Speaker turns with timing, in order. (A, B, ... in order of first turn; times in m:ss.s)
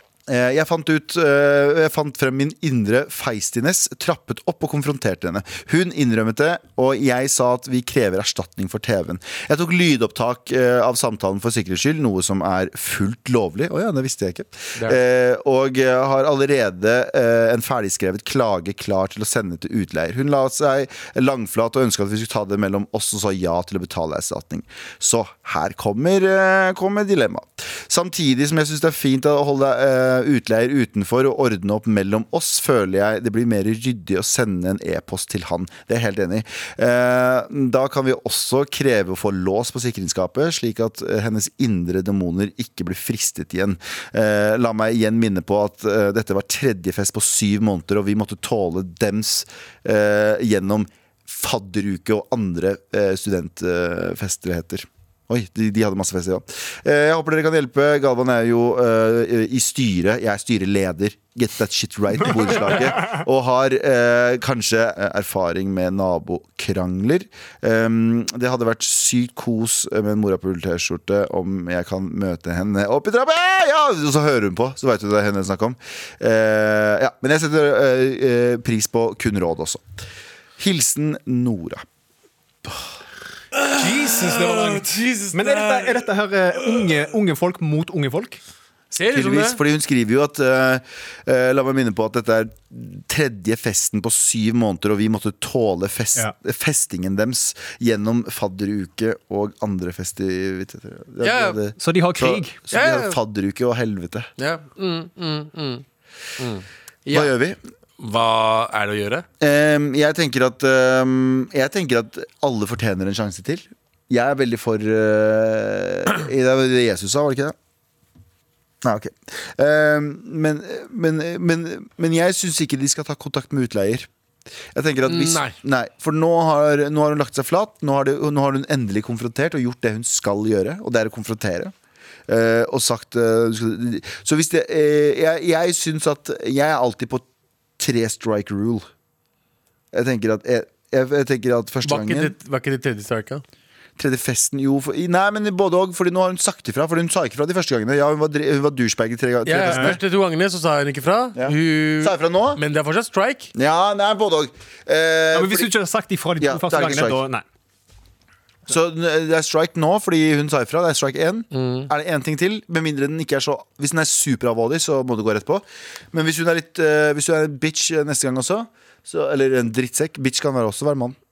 0:00.3-1:19.8 A
1:20.6-1:21.8 A
1:23.5-1:26.0 B
1:23.7-1:28.4 C
1:28.9-1:29.6 B
1:29.1-1:44.3 A
1:41.2-1:41.6 B
1:41.8-1:42.6 C
1:42.7-1:43.2 B
1:44.4-1:45.8 B
1:46.4-1:47.3 B
1:47.1-1:47.6 A
1:48.0-1:49.2 B
1:49.4-1:57.5 A
1:58.8-2:04.1 A
2:04.7-2:11.7 A
2:05.0-2:05.5 B
2:12.3-2:17.2 A
2:17.8-2:18.9 A
2:19.9-2:22.3 A
2:21.8-2:23.4 B
2:24.0-2:30.0 A
2:29.4-2:33.5 B
2:31.4-2:32.6 A
2:33.5-2:35.7 A
2:35.3-2:37.4 C
2:36.4-2:37.2 A
2:38.7-2:51.2 A
2:41.5-2:41.9 B